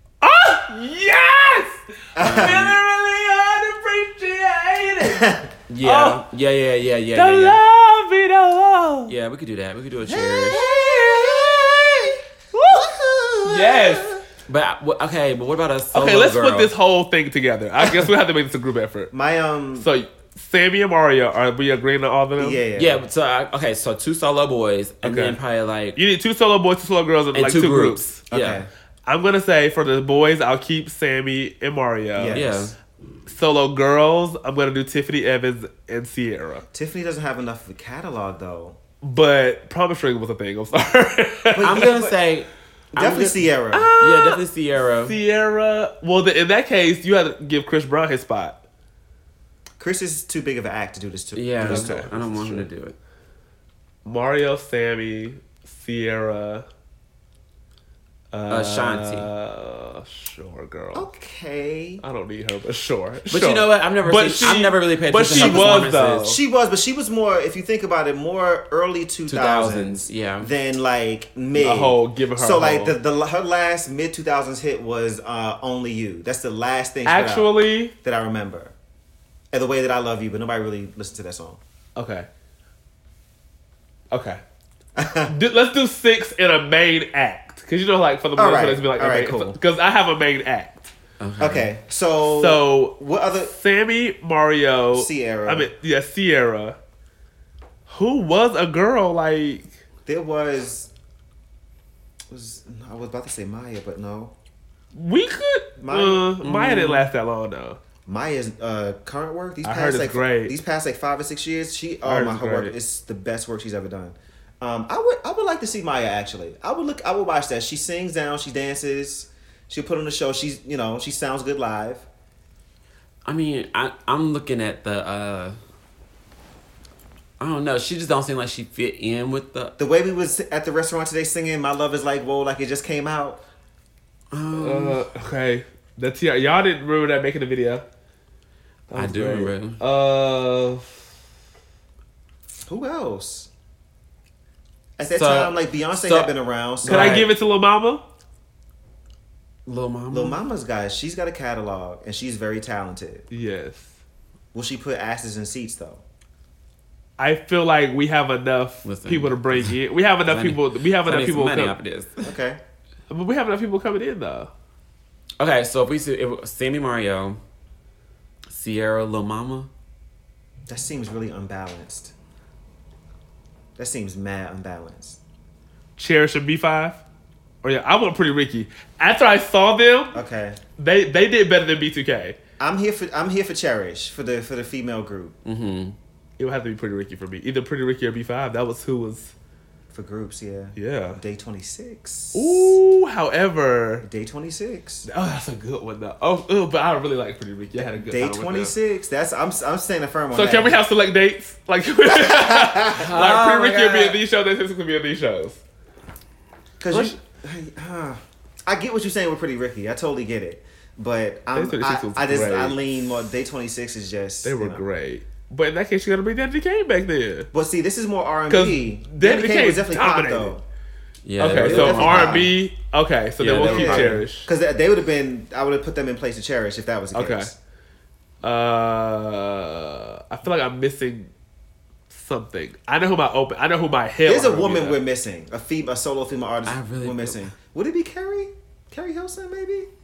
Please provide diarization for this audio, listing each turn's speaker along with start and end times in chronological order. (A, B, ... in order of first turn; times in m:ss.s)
0:00.2-0:05.3 A
0:02.1-0:02.8 B
0:02.2-0:02.7 C
0:05.0-0:05.5 B
0:05.7-0:07.6 C
0:05.8-0:06.2 A
0:07.1-0:09.1 A
0:09.1-0:10.6 C
0:10.1-0:12.2 B
0:10.5-0:12.9 A
0:12.7-0:14.2 B
0:13.4-0:14.2 A
0:14.5-0:16.7 C
0:15.9-0:19.1 A
0:17.8-0:18.1 B
0:19.1-0:19.9 B
0:19.8-0:22.6 A
0:22.4-0:23.0 B
0:22.8-0:26.0 C
0:25.0-0:25.4 A
0:25.9-0:28.2 A
0:27.3-0:28.6 C
0:28.3-0:28.7 B
0:29.1-0:32.4 A
0:32.1-0:32.7 B
0:32.3-0:32.7 C
0:33.3-0:36.6 A
0:36.7-0:38.8 B
0:39.0-0:41.9 A
0:41.5-0:42.2 B
0:41.6-0:43.4 C
0:42.9-0:43.9 B
0:43.7-0:44.4 A
0:44.0-0:45.2 C
0:45.0-0:48.6 A
0:49.8-0:52.1 B
0:51.3-0:53.0 C
0:51.6-0:52.7 A
0:54.0-0:56.6 A
0:58.3-1:01.1 A
0:58.5-0:59.3 C
1:00.9-1:02.0 B
1:02.0-1:06.4 A
1:03.3-1:06.3 C
1:05.3-1:17.5 B
1:09.3-1:10.5 C
1:11.6-1:12.9 A
1:17.0-1:17.9 A
1:18.0-1:18.7 B
1:19.5-1:21.6 B
1:22.0-1:22.3 A
1:24.1-1:24.4 A
1:25.0-1:25.3 B
1:25.3-1:30.9 A
1:28.4-1:29.6 B
1:31.2-1:31.7 C
1:31.4-1:33.5 B
1:32.2-1:36.8 A
1:34.9-1:35.7 B
1:37.9-1:39.7 A
1:40.0-1:40.9 B
1:42.3-1:44.3 B
1:44.9-1:47.8 A
1:45.8-1:46.6 B
1:46.4-1:47.0 C
1:48.0-2:02.0 B
1:49.6-1:50.5 A
1:52.0-1:52.7 A
2:03.2-2:05.6 C
2:07.4-2:09.7 C
2:09.8-2:13.4 B
2:14.3-2:15.0 C
2:14.5-2:17.8 A
2:18.9-2:21.0 A
2:18.9-2:19.8 C
2:22.7-2:23.5 B
2:25.0-2:27.2 B
2:25.1-2:27.3 C
2:26.8-2:28.0 A
2:29.6-2:30.4 C
2:30.1-2:33.2 B
2:33.3-2:33.9 A
2:34.5-2:36.0 B
2:37.2-2:41.8 A
2:38.8-2:42.2 C
2:42.2-2:42.6 B
2:43.1-2:44.5 A
2:45.4-2:47.4 C
2:48.5-2:49.7 C
2:50.7-2:52.1 B
2:53.8-2:55.2 B
2:56.0-2:57.0 A
2:57.6-3:00.2 A
3:00.1-3:00.6 B
3:00.8-3:02.4 A
3:02.6-3:05.4 B
3:05.4-3:06.0 C
3:06.4-3:09.3 A
3:09.9-3:12.8 B
3:10.8-3:11.2 A
3:12.3-3:14.0 A
3:14.0-3:15.1 B
3:15.0-3:18.7 A
3:17.8-3:20.8 B
3:20.3-3:25.6 A
3:22.0-3:23.1 B
3:22.9-3:24.2 C
3:26.8-3:34.8 B
3:26.9-3:27.1 A
3:31.5-3:32.8 A
3:34.4-3:37.5 A
3:37.5-3:40.6 B
3:38.5-3:40.5 A
3:41.2-3:42.5 C
3:41.4-3:44.5 A
3:41.5-3:42.5 B
3:43.4-3:44.2 C
3:43.5-3:47.5 B
3:47.1-3:47.5 A
3:48.4-3:51.3 A
3:52.1-3:55.0 A
3:54.2-3:59.9 B
3:56.6-3:57.5 C